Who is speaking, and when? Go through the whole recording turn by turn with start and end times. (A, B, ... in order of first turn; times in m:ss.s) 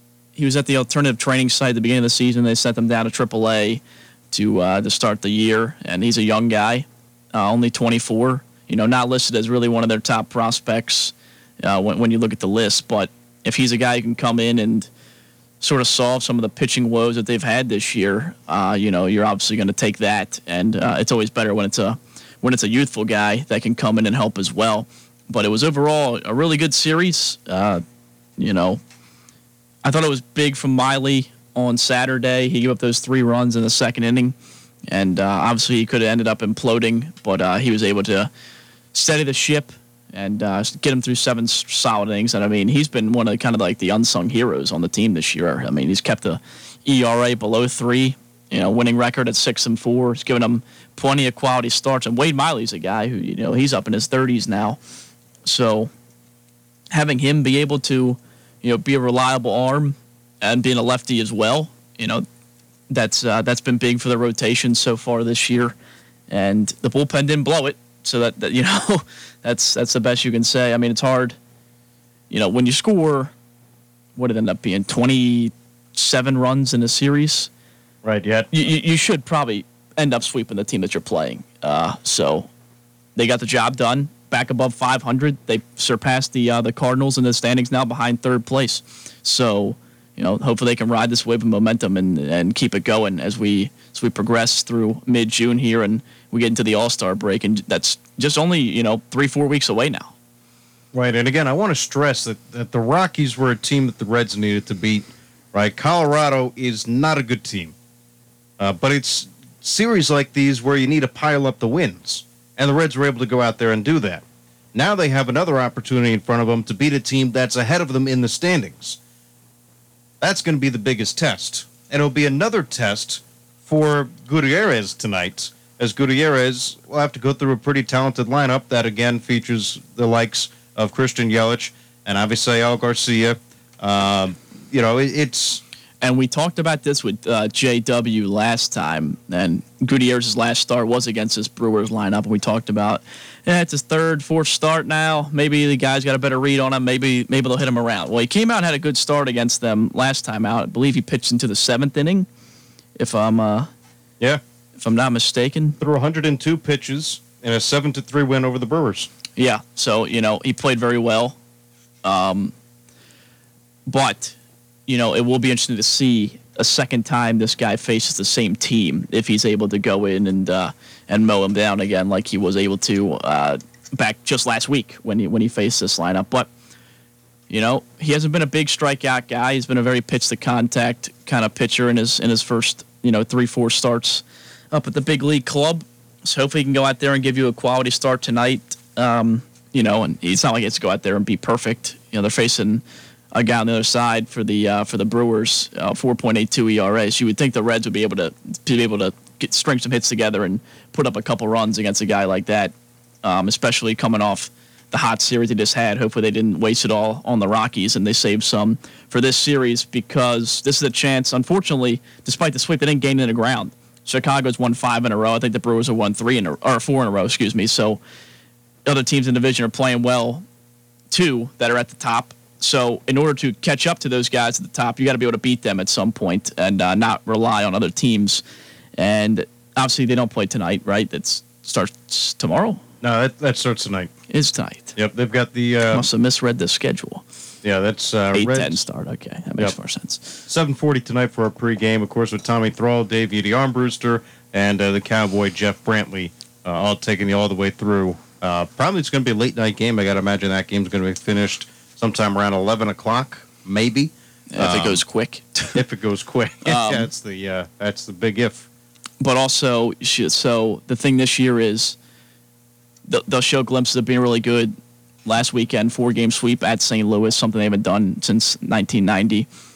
0:00.4-0:14.9 A
0:15.6-0:27.8 A
0:28.4-0:28.8 A
0:29.8-0:34.4 A
0:34.9-0:38.3 A
0:38.9-0:54.8 A
0:55.4-0:55.9 A
0:56.9-1:02.2 A
1:02.9-1:05.8 A
1:06.3-1:11.4 A
1:12.3-1:13.3 A
1:14.2-1:17.5 A
1:18.0-1:18.5 B
1:18.5-1:22.5 A
1:23.2-1:40.1 A
1:40.9-1:47.7 B
1:48.6-1:54.2 B
1:54.7-1:59.0 B
2:00.2-2:15.6 B
2:16.0-2:32.3 A
2:33.0-2:33.7 A
2:34.8-2:35.8 A
2:35.8-2:39.1 B
2:39.4-2:41.4 A
2:42.0-2:42.5 A
2:43.9-2:44.4 A
2:44.9-2:56.5 A
2:57.5-3:38.0 A
3:38.9-3:40.4 A
3:41.1-3:48.4 A
3:49.0-3:52.8 A
3:53.0-3:54.1 B
3:54.3-3:55.0 A
3:55.0-3:56.1 B
3:55.9-3:57.2 A
3:57.6-3:58.8 B
3:58.3-4:00.4 A
4:00.5-4:15.0 B
4:14.5-4:15.8 A
4:15.7-4:18.7 B
4:16.6-4:17.1 A
4:19.2-4:22.0 A
4:23.1-4:29.5 A